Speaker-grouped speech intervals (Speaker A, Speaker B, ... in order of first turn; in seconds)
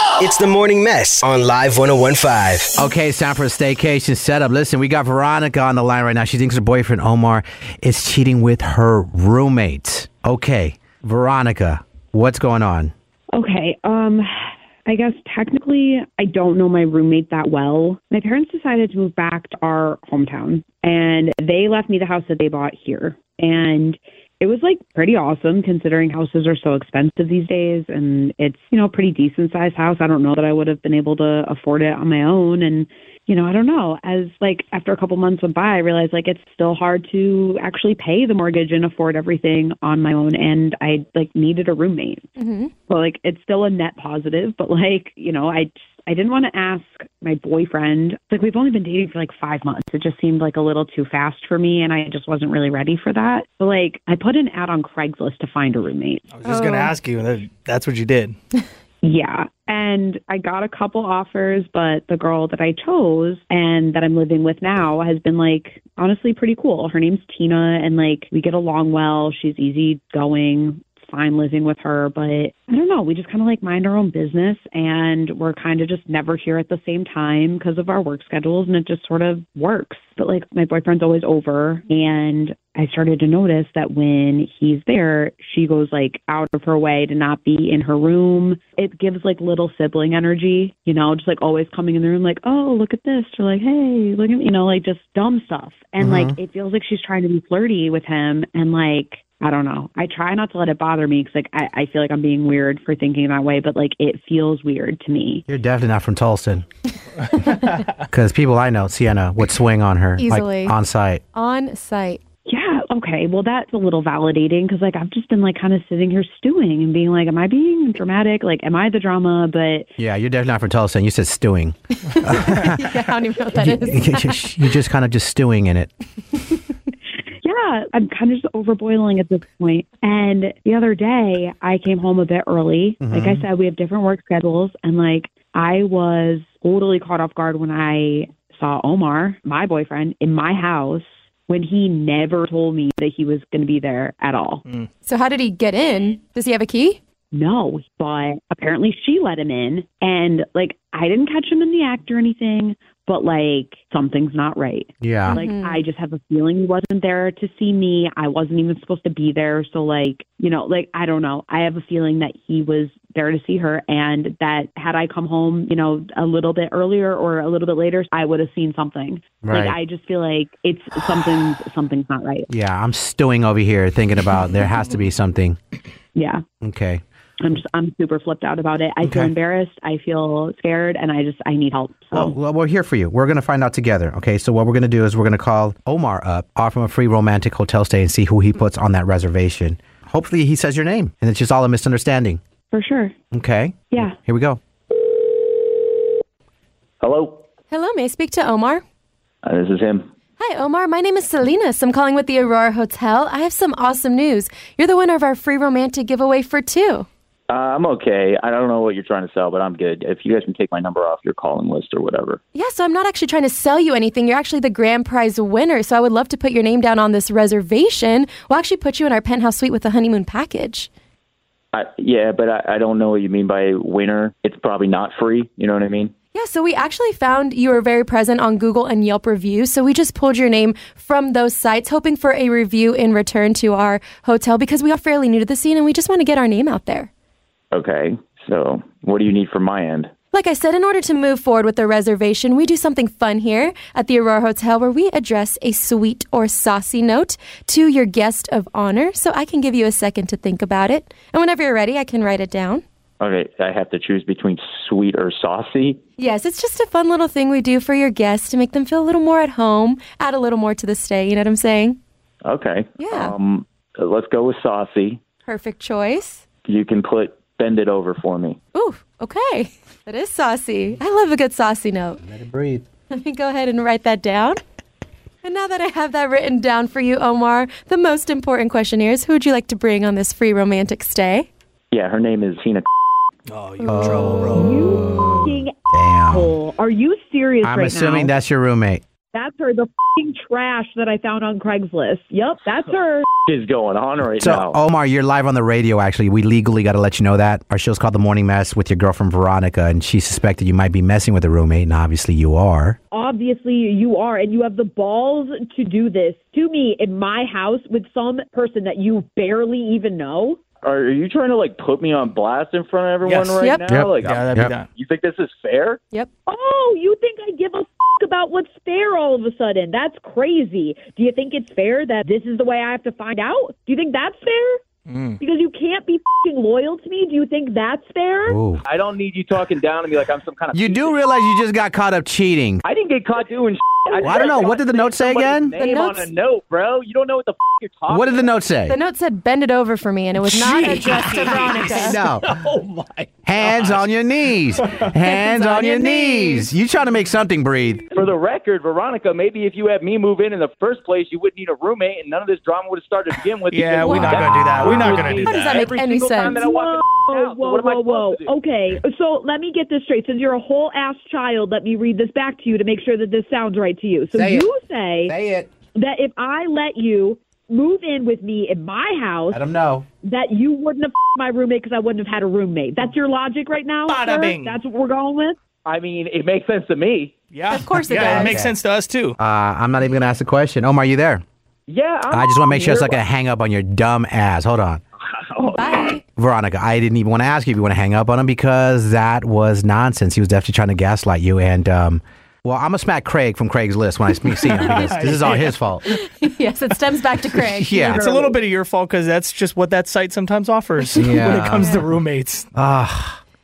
Speaker A: 0.2-2.7
Speaker B: 2.8-12.9, 96.0-96.3, 105.5-106.6, 107.4-111.2, 120.0-122.9, 123.6-125.9, 133.0-133.4, 155.0-155.4, 169.4-169.8, 172.5-175.6, 176.6-177.0, 179.0-179.3, 182.1-192.4, 193.3-194.6, 272.2-272.8, 283.9-284.5, 285.9-286.5, 287.6-289.0, 294.4-303.0, 313.9-314.7, 328.5-328.8, 330.7-332.8, 334.2-335.7, 338.1-339.0, 341.9-342.5, 343.4-348.0, 364.3-364.7, 365.2-365.7, 369.5-370.1, 378.2-378.8, 379.4-381.4, 382.3-385.0, 386.4-396.0, 397.6-398.3, 401.1-401.9, 402.7-403.4
Speaker C: 13.3-42.3, 42.9-56.2, 59.0-105.4, 112.5-119.9, 127.4-144.6, 147.3-172.5, 176.2-176.4, 177.4-182.3, 192.7-193.1, 284.5-285.7, 286.3-288.3, 289.3-293.3, 303.1-310.6, 316.5-324.8, 325.4-328.6, 356.4-365.3, 365.9-369.6, 370.2-375.6, 398.2-398.6
Speaker D: 42.4-42.7, 56.5-56.9, 110.2-110.7, 111.3-112.2, 122.2-124.4, 145.1-147.0, 155.3-155.8, 197.7-198.8, 200.4-207.1, 212.5-220.9, 226.3-237.1, 240.3-252.8, 256.2-262.0, 263.0-263.3, 265.4-266.4, 268.7-272.2, 273.1-274.6, 275.4-281.5, 335.8-336.3, 338.9-342.2, 345.2-346.7, 354.0-356.6, 377.7-378.6, 385.6-386.2, 396.1-398.2, 401.4-402.0
Speaker E: 56.3-58.4, 283.5-285.4, 313.2-313.6, 314.2-314.9, 325.1-325.4, 340.5-341.5, 343.6-344.1, 353.7-355.7, 374.1-374.8, 377.5-379.4, 394.8-395.7, 398.1-402.6
Speaker F: 195.0-195.9, 197.0-197.4, 199.4-200.1, 207.5-212.4, 221.7-226.1, 237.7-240.1, 253.2-256.0, 262.4-265.2, 266.6-268.6, 281.9-282.9, 293.5-294.8, 310.8-316.0, 328.8-331.2, 332.8-338.5, 342.4-343.2, 348.1-358.5, 375.9-377.3, 381.9-383.2, 385.5-386.1